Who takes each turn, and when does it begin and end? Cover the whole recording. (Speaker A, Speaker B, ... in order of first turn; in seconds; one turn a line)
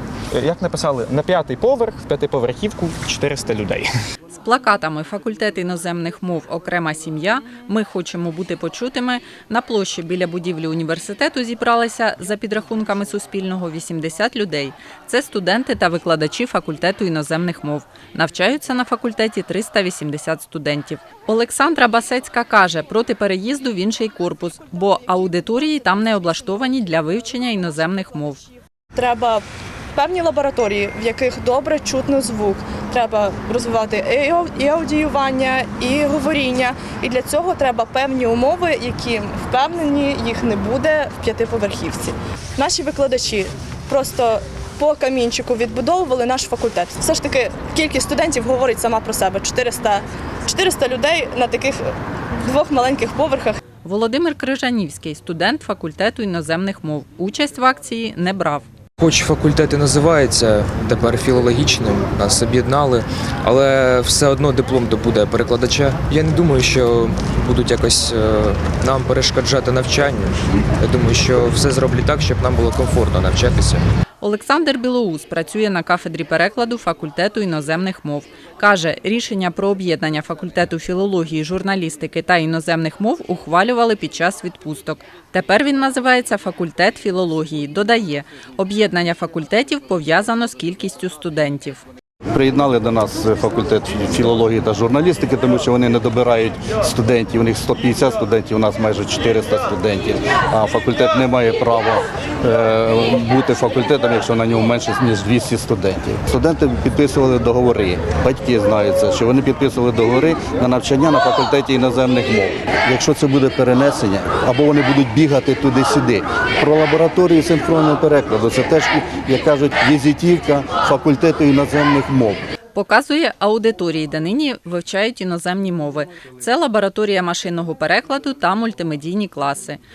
Speaker A: 0.3-3.9
Speaker B: 4.3-28.4
Speaker C: 28.9-29.4
Speaker C: 29.9-51.8
Speaker C: 52.4-53.6
Speaker B: 53.8-58.6
Speaker D: 59.0-73.8
Speaker B: 74.2-91.8
Speaker E: 92.3-122.4
Speaker B: 122.7-129.8